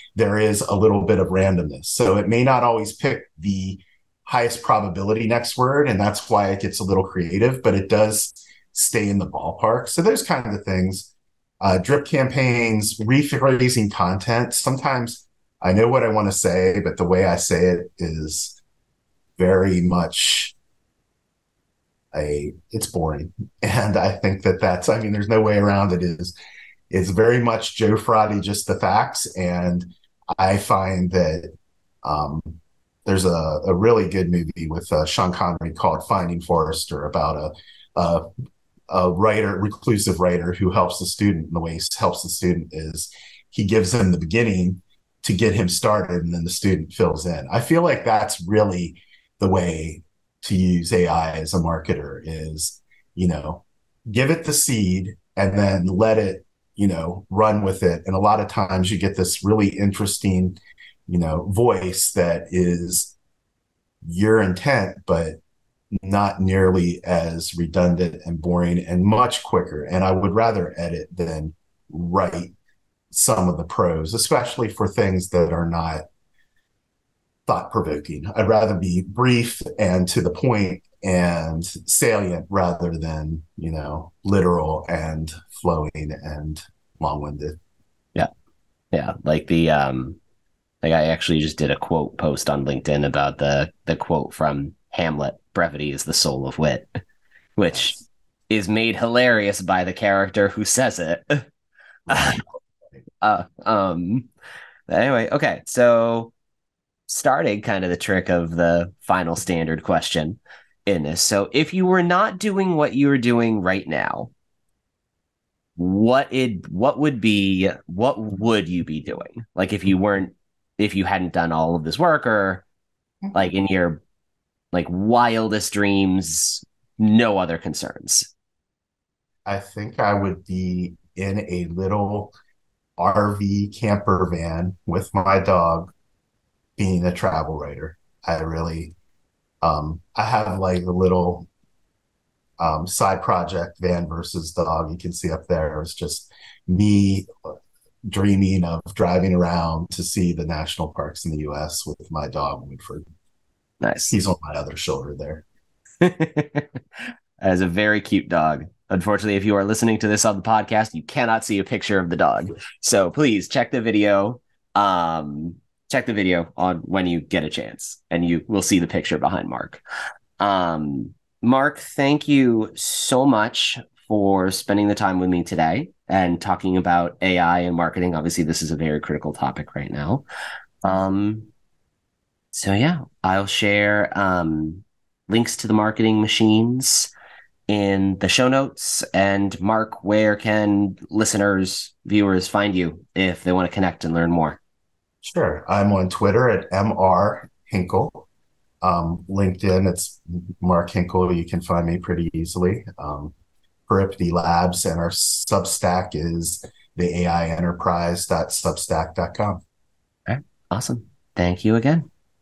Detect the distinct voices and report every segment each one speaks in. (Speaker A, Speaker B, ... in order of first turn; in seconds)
Speaker A: 0.1-18.6, 19.4-20.6, 22.1-26.4, 26.9-38.3, 38.9-63.1, 64.0-65.4, 66.0-72.5, 73.1-76.0, 77.5-87.6, 102.1-102.3, 123.2-123.5, 129.4-132.3, 133.0-135.9, 136.8-138.9, 139.6-141.5, 142.6-147.5, 148.1-153.1, 154.1-155.4, 195.2-198.3, 198.8-203.3, 203.9-209.6
Speaker B: 88.9-90.2, 90.8-96.9, 97.6-101.5, 102.1-102.4, 103.2-104.3, 104.9-106.3, 107.1-114.3, 115.8-122.7, 123.3-124.0, 124.7-128.3, 153.8-154.2, 156.0-169.8, 170.4-180.2, 180.8-181.5, 182.5-187.1, 187.7-194.6, 210.3-212.1